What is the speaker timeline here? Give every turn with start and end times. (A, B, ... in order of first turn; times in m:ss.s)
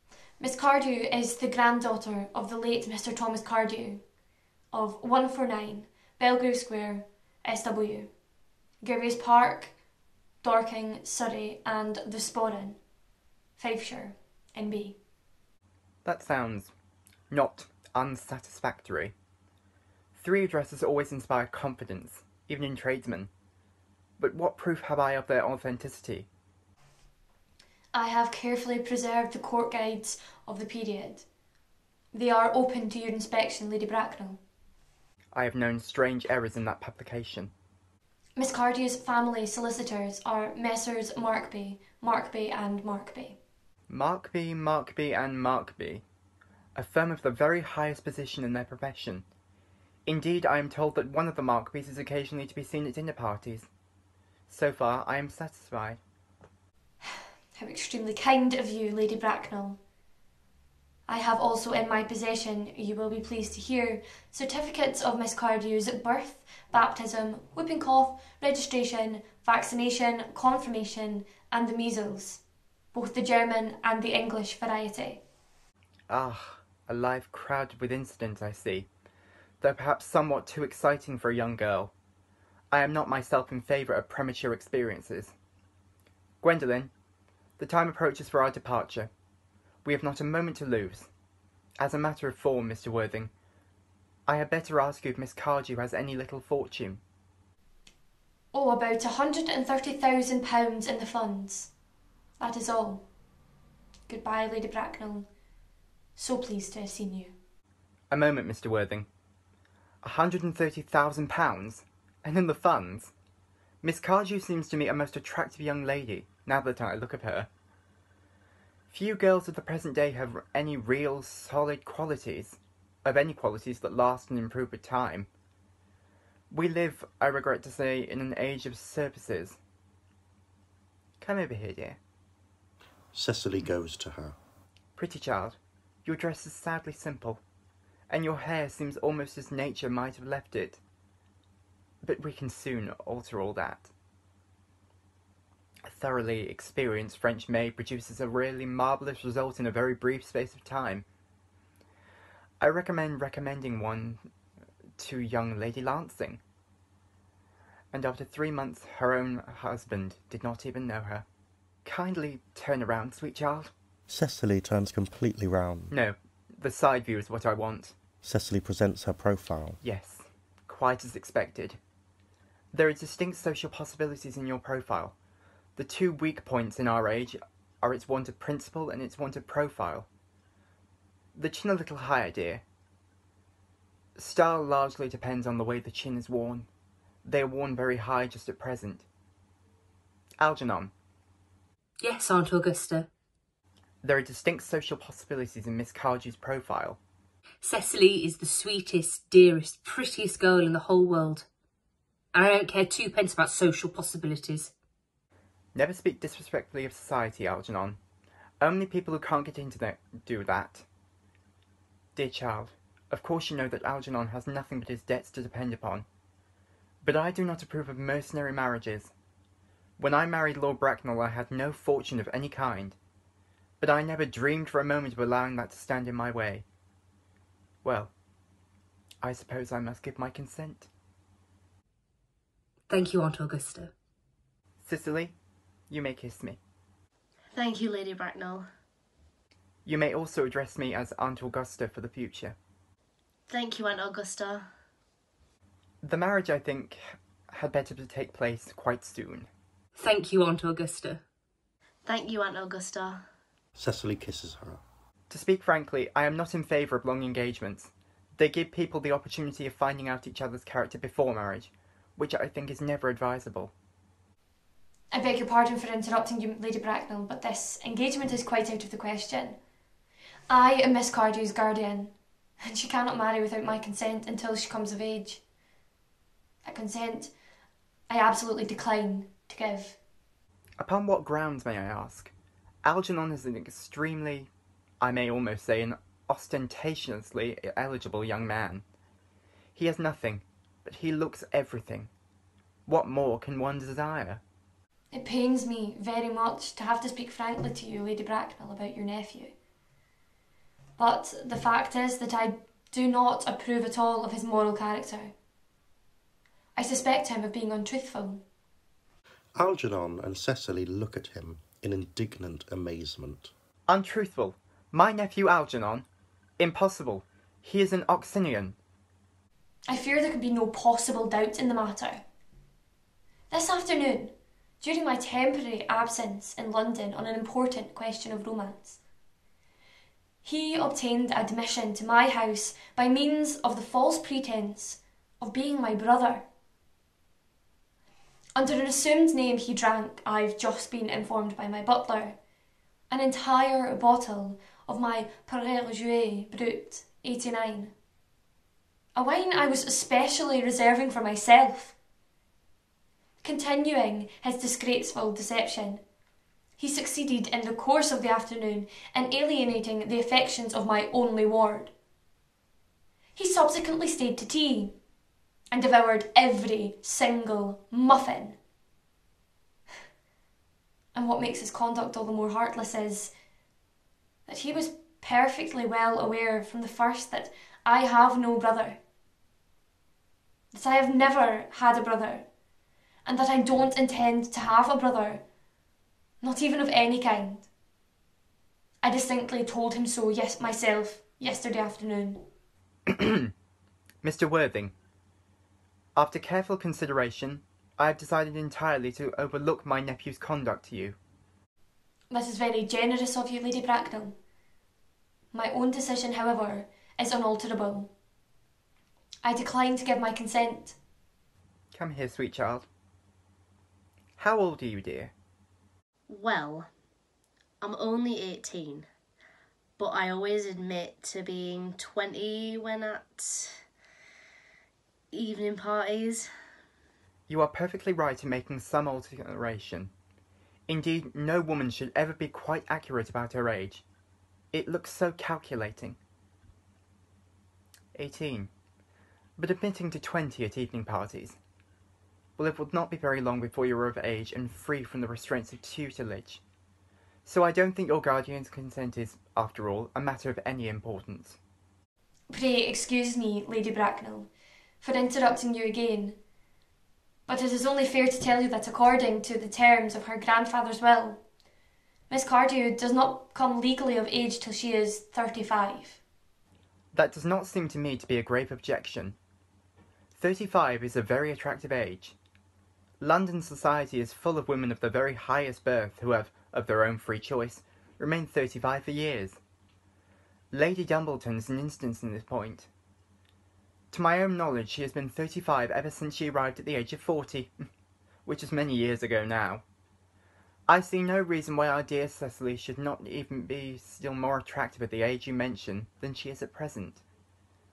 0:00.4-0:04.0 A
0:04.7-0:08.1 A
0:08.8-0:09.7 A
0:10.4-0:12.8 A
0:13.6-0:15.0 A
0:16.0-0:16.7 B
0:17.3-0:19.1 B
0:20.1-0:23.3 B
0:24.2-0:26.3 B
0:27.9-0:31.2 A
0:32.1-0:34.4 A
0:35.3-0:37.5 B
0:38.4-0:43.4 A
0:43.9-0:46.0 B
0:46.8-0:49.2 B
0:50.0-0:53.7 B
0:54.5-0:56.0 B
0:57.0-0:59.8 A
1:01.1-1:12.4 A
1:12.9-1:15.2 A
1:16.1-1:18.9 B
1:19.6-1:21.9 B
1:22.7-1:25.3 B
1:26.4-1:26.9 B
1:27.6-1:29.1 B
1:29.8-1:31.1 B
1:31.8-1:33.3 B
1:34.3-1:37.0 B
1:38.5-1:41.7 A
1:42.4-1:43.0 A
1:44.1-1:45.3 A
1:46.2-1:47.3 A
1:48.1-1:49.1 B
1:50.0-1:53.1 B
1:53.8-1:57.5 B
1:58.9-2:05.3 B
2:06.5-2:09.6 B
2:11.2-2:12.0 B
2:13.1-2:14.4 C
2:15.0-2:17.4 B
2:18.1-2:20.8 B
2:22.0-2:23.9 B
2:25.8-2:31.0 B
2:32.6-2:34.2 B
2:35.0-2:36.4 B
2:37.9-2:41.2 B
2:41.8-2:43.7 B
2:44.1-2:45.9 C
2:45.9-2:47.9 B
2:48.2-2:49.8 C
2:49.8-2:51.8 B
2:52.7-2:55.1 B
2:55.8-3:00.1 B
3:01.3-3:02.6 B
3:04.2-3:06.7 B
3:07.2-3:09.0 B
3:10.4-3:10.9 B
3:12.0-3:13.1 D
3:14.0-3:17.0 B
3:17.6-3:21.5 D
3:22.3-3:24.7 D
3:25.7-3:28.0 B
3:28.6-3:30.8 B
3:32.1-3:36.0 B
3:37.0-3:39.1 B
3:40.0-3:43.0 B
3:43.8-3:46.6 B
3:47.8-3:48.1 B
3:49.2-3:50.9 B
3:52.9-3:53.9 D
3:54.8-3:55.3 B
3:55.9-3:56.6 B
3:57.5-3:58.6 E
3:59.8-4:02.6 B
4:03.5-4:04.7 E
4:06.0-4:07.0 B
4:07.5-4:09.5 B
4:10.0-4:11.2 D
4:12.0-4:13.2 E
4:13.8-4:14.8 C
4:15.3-4:23.7 B
4:25.1-4:29.6 A
4:30.5-4:35.4 A
4:36.6-4:37.3 A
4:38.1-4:40.0 A
4:40.8-4:42.3 B
4:42.8-4:44.5 B
4:45.0-4:48.8 B
4:49.8-4:52.1 B
4:52.9-4:54.4 B
4:55.1-4:59.5 A
5:01.0-5:05.3 A
5:06.8-5:08.4 A
5:09.5-5:13.5 C
5:13.9-5:16.0 B
5:16.6-5:18.8 B
5:19.9-5:22.2 A
5:23.5-5:29.0 A
5:30.4-5:36.4 A
5:38.6-5:42.4 A
5:43.1-5:47.9 A
5:49.1-5:51.9 A
5:53.4-5:56.0 A
5:56.8-6:01.9 A
6:03.4-6:05.0 A
6:05.7-6:08.6 A
6:11.1-6:13.3 A
6:14.5-6:19.0 A
6:20.7-6:22.5 A
6:23.2-6:25.4 A
6:26.4-6:27.7 A
6:29.0-6:32.4 A
6:33.1-6:33.5 B
6:34.2-6:34.9 B
6:36.1-6:41.2 B
6:42.3-6:44.4 A
6:45.5-6:48.1 A
6:49.4-6:51.0 A
6:51.9-6:52.9 B
6:54.4-6:55.3 B
6:56.3-6:56.9 E
6:57.8-6:59.1 E
7:00.0-7:03.8 E
7:05.3-7:06.5 E
7:07.5-7:10.1 B
7:10.9-7:14.0 B
7:14.7-7:16.2 B
7:18.1-7:18.7 B
7:19.6-7:21.6 B
7:22.6-7:26.6 B
7:27.4-7:31.6 B
7:32.5-7:34.5 A
7:35.0-7:36.4 A
7:37.5-7:41.4 A
7:42.3-7:46.2 A
7:47.1-7:49.4 B
7:50.4-7:52.3 B
7:53.2-7:59.6 B
8:00.7-8:02.9 B
8:04.1-8:07.8 B
8:08.4-8:09.8 B
8:10.9-8:17.2 B